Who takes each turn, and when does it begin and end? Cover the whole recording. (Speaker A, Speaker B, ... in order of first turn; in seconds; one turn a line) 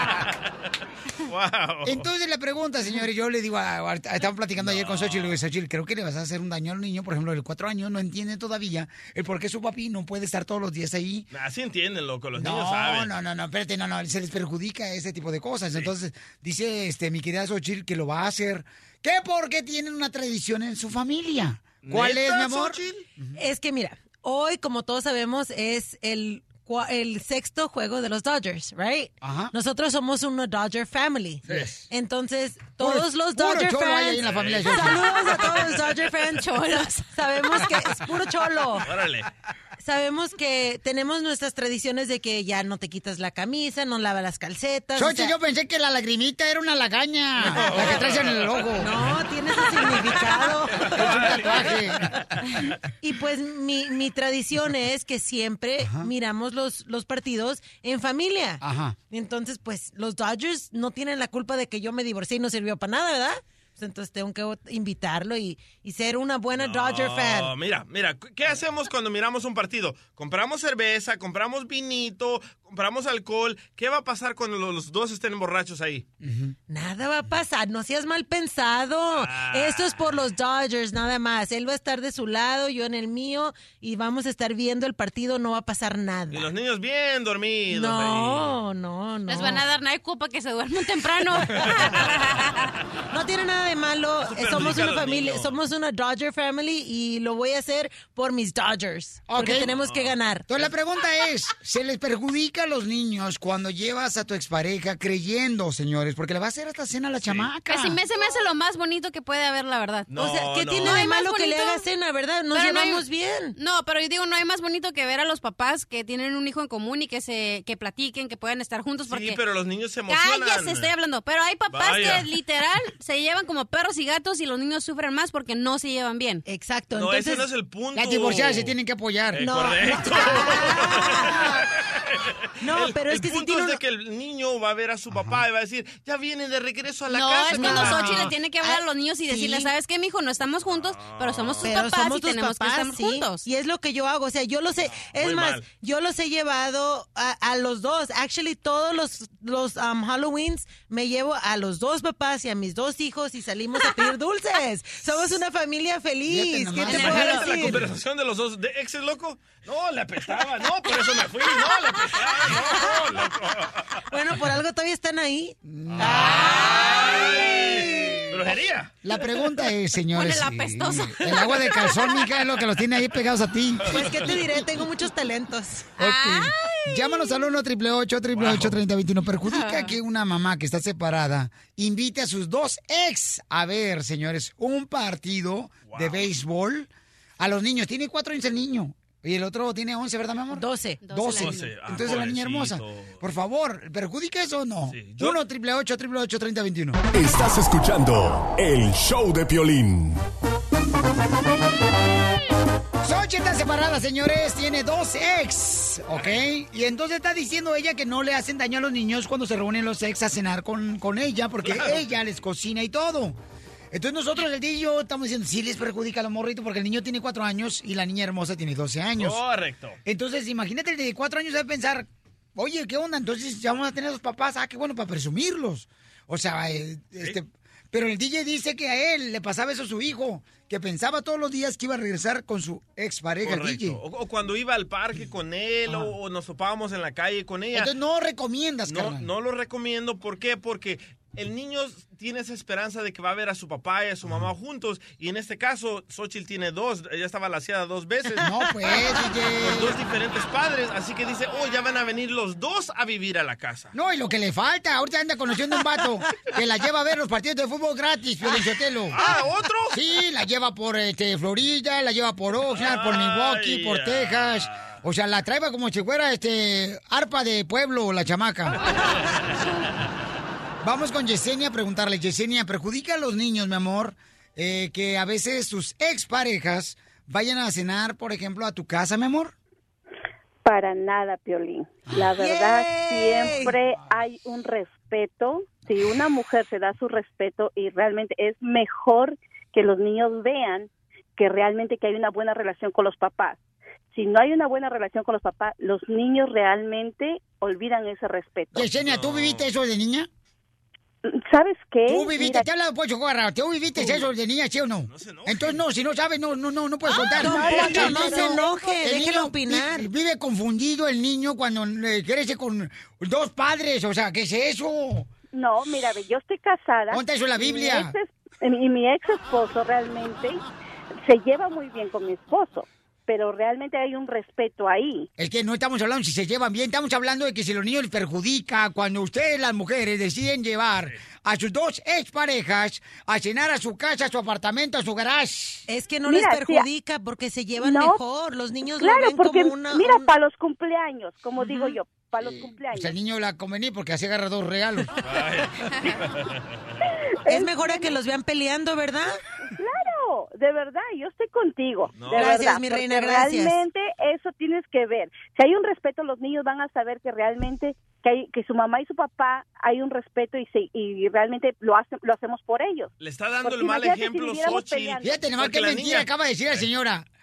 Speaker A: 1.2-2.0
Speaker B: 1.8-11.3
Speaker A: 4.6-5.3
Speaker A: 11.3-13.1
Speaker B: 12.4-23.3
Speaker A: 21.8-22.9
Speaker C: 23.4-38.9
Speaker B: 29.2-29.5
Speaker B: 32.8-35.1
Speaker A: 34.2-35.0
Speaker D: 36.4-37.0
Speaker A: 38.8-39.3
Speaker C: 39.8-45.3
Speaker B: 45.0-48.9
Speaker A: 47.5-48.6
Speaker C: 48.8-51.0
Speaker A: 50.9-51.8
Speaker B: 51.0-52.1
Speaker C: 53.0-67.5
Speaker B: 55.8-56.1
Speaker B: 58.6-59.0
Speaker A: 66.5-76.0
Speaker B: 76.2-76.5
Speaker C: 76.7-86.5
Speaker A: 79.1-80.0
Speaker A: 86.3-88.6
Speaker C: 87.7-89.6
Speaker D: 89.3-92.5
Speaker A: 91.6-92.1
Speaker C: 93.1-100.4
Speaker A: 94.2-95.6
Speaker B: 99.3-99.7
Speaker A: 99.6-100.7
Speaker B: 100.5-108.0
Speaker D: 107.7-110.1
Speaker A: 110.1-111.0
Speaker C: 110.1-113.5
Speaker D: 110.8-111.8
Speaker D: 112.5-113.0
Speaker D: 113.5-119.4
Speaker A: 119.1-120.9
Speaker D: 120.1-126.4
Speaker A: 121.7-122.2
Speaker C: 126.5-127.5
Speaker A: 126.9-128.7
Speaker B: 127.9-129.4
Speaker A: 129.3-131.4
Speaker C: 129.4-131.6
Speaker A: 132.1-138.3
Speaker C: 132.6-133.8
Speaker B: 135.1-135.4
Speaker D: 137.1-143.4
Speaker C: 137.6-139.7
Speaker A: 140.7-141.7
Speaker C: 141.6-157.8
Speaker A: 144.8-145.6
Speaker B: 156.2-157.9
Speaker A: 156.8-163.8
Speaker C: 164.1-167.2
Speaker B: 165.6-168.3
Speaker A: 166.0-168.9
Speaker B: 169.0-174.0
Speaker D: 170.1-172.1
Speaker A: 173.9-174.3
Speaker C: 173.9-175.9
Speaker D: 176.0-177.4
Speaker B: 176.0-197.0
Speaker A: 178.3-178.8
Speaker D: 179.5-179.9
Speaker A: 185.9-186.3
Speaker C: 190.5-191.4
Speaker D: 191.0-191.7
Speaker A: 191.4-193.2
Speaker A: 194.9-195.4
Speaker E: 197.1-200.2
Speaker B: 203.0-213.4
Speaker A: 211.6-212.0
Speaker B: 213.9-219.4
Speaker A: 219.2-220.0
Speaker B: 220.0-234.0
Speaker A: 233.4-237.9
Speaker B: 237.7-239.3
Speaker A: 238.9-248.5
Speaker B: 248.4-250.0
Speaker A: 249.6-253.9
Speaker B: 253.9-259.2
Speaker A: 259.1-260.0
Speaker B: 259.9-268.8
Speaker A: 262.7-265.0
Speaker B: 270.8-279.5
Speaker F: 280.6-293.6
Speaker C: 282.2-283.8
Speaker F: 294.1-298.8
Speaker B: 298.7-300.3
Speaker A: 299.0-299.7
Speaker F: 301.3-302.7
Speaker B: 302.1-315.3
Speaker A: 305.1-305.8
Speaker C: 307.2-310.1
Speaker A: 307.5-308.2
Speaker F: 315.5-320.6
Speaker B: 317.1-318.1
Speaker F: 321.2-325.3
Speaker B: 325.4-335.9
Speaker C: 335.9-340.3
Speaker F: 336.3-336.8
Speaker F: 337.9-338.2
Speaker F: 339.0-343.1
Speaker D: 341.6-341.9
Speaker B: 342.5-345.1
Speaker A: 345.2-347.0
Speaker C: 347.5-349.4
Speaker F: 347.5-348.1
Speaker F: 349.8-363.1
Speaker A: 352.2-352.6
Speaker C: 352.3-353.8
Speaker A: 363.2-366.8
Speaker F: 363.6-365.3
Speaker B: 365.2-367.2